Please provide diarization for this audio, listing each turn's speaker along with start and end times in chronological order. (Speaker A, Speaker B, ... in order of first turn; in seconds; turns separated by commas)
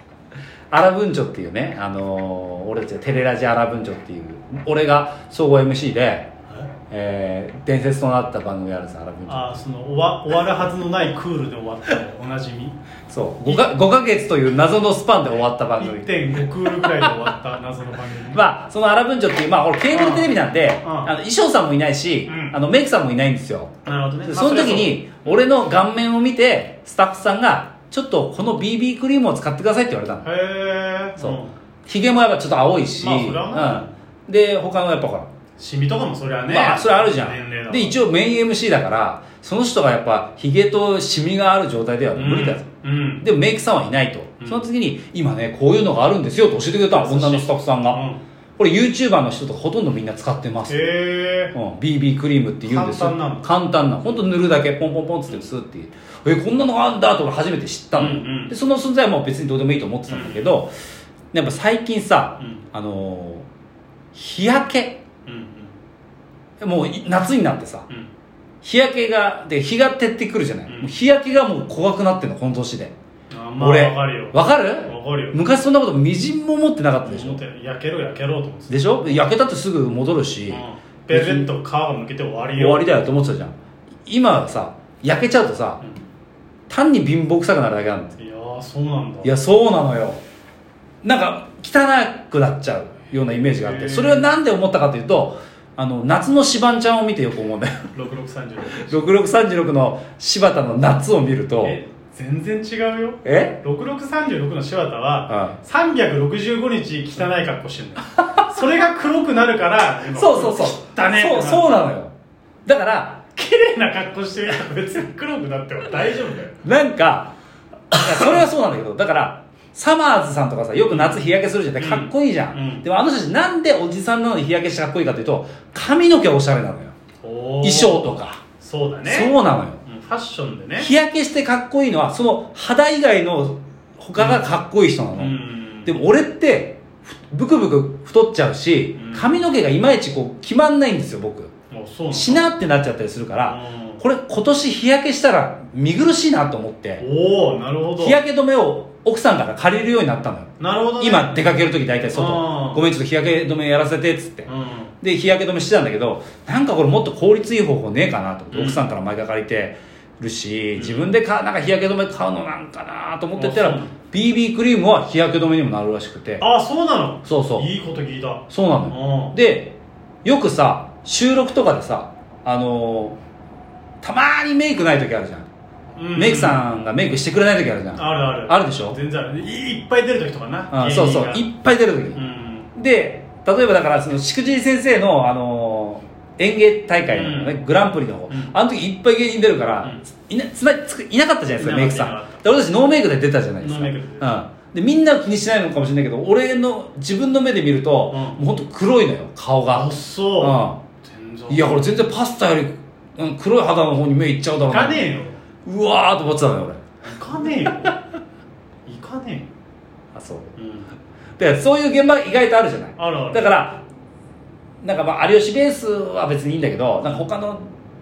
Speaker A: 0.7-6.3, Speaker A: 6.9-9.5, Speaker B: 9.2-12.8, Speaker A: 13.1-16.1, Speaker B: 13.4-13.7, Speaker B: 15.8-18.5, Speaker A: 16.7-17.1, Speaker A: 18.3-30.2, Speaker B: 19.9-21.1, Speaker B: 22.3-22.6, Speaker B: 23.8-25.4, Speaker B: 30.2-31.6, Speaker A: 31.2-35.3, Speaker B: 33.0-33.9, Speaker B: 35.6-38.0, Speaker A: 36.5-42.6, Speaker B: 42.1-43.2, Speaker A: 43.2-48.0, Speaker B: 46.9-48.2, Speaker A: 48.6-50.9, Speaker B: 50.7-51.5, Speaker A: 51.5-60.7, Speaker B: 52.6-53.5, Speaker B: 57.9-58.5, Speaker B: 60.1-60.5, Speaker A: 61.3-63.5, Speaker B: 62.4-62.6, Speaker A: 64.1-65.0, Speaker B: 65.2-65.8, Speaker A: 66.6-67.9, Speaker A: 68.6-72.9, Speaker B: 70.7-70.9, Speaker B: 73.3-75.4, Speaker A: 73.6-77.4, Speaker B: 77.0-79.3, Speaker A: 78.7-81.5, Speaker B: 80.5-82.9, Speaker A: 82.5-83.5, Speaker A: 84.0-85.8, Speaker A: 86.7-88.1, Speaker B: 88.2-89.3, Speaker A: 89.2-90.2, Speaker A: 91.0-97.9, Speaker B: 93.4-94.3, Speaker B: 97.9-99.0, Speaker A: 98.8-101.8, Speaker B: 101.6-111.8, Speaker A: 103.2-103.6, Speaker A: 105.3-105.6, Speaker A: 110.1-112.1, Speaker A: 112.7-113.2, Speaker B: 113.3-116.6, Speaker A: 116.6-117.3, Speaker A: 117.9-126.9, Speaker B: 120.9-121.2, Speaker B: 121.8-122.8, Speaker B: 127.2-130.9, Speaker A: 127.6-128.4, Speaker A: 129.1-129.8, Speaker A: 130.8-135.3, Speaker B: 134.2-134.4, Speaker B: 135.2-135.9, Speaker A: 135.8-141.5, Speaker B: 138.9-139.4, Speaker B: 141.7-142.4, Speaker A: 142.1-147.0, Speaker B: 143.4-144.0, Speaker B: 147.0-148.2, Speaker A: 148.0-154.5, Speaker B: 150.6-151.6, Speaker B: 152.1-152.8, Speaker B: 154.5-154.9, Speaker A: 155.0-166.4, Speaker B: 158.5-158.8, Speaker B: 160.8-161.1, Speaker B: 163.4-163.9, Speaker B: 166.4-169.3, Speaker A: 167.2-167.7, Speaker A: 168.5-173.2, Speaker A: 174.0-175.5, Speaker B: 175.9-176.6, Speaker A: 176.1-179.0, Speaker B: 177.9-181.4, Speaker A: 180.7-182.2, Speaker B: 182.1-182.7, Speaker A: 182.7-200.8, Speaker B: 187.1-187.6, Speaker B: 188.3-188.5, Speaker B: 191.6-192.4, Speaker B: 193.6-194.4, Speaker B: 198.1-198.4, Speaker B: 199.7-201.9, Speaker A: 201.5-205.1, Speaker B: 204.7-205.4, Speaker A: 205.6-206.8, Speaker B: 207.0-207.9, Speaker B: 208.8-209.5, Speaker A: 210.1-210.5, Speaker B: 210.6-210.9, Speaker A: 211.4-213.8, Speaker B: 213.0-213.6, Speaker A: 214.8-217.7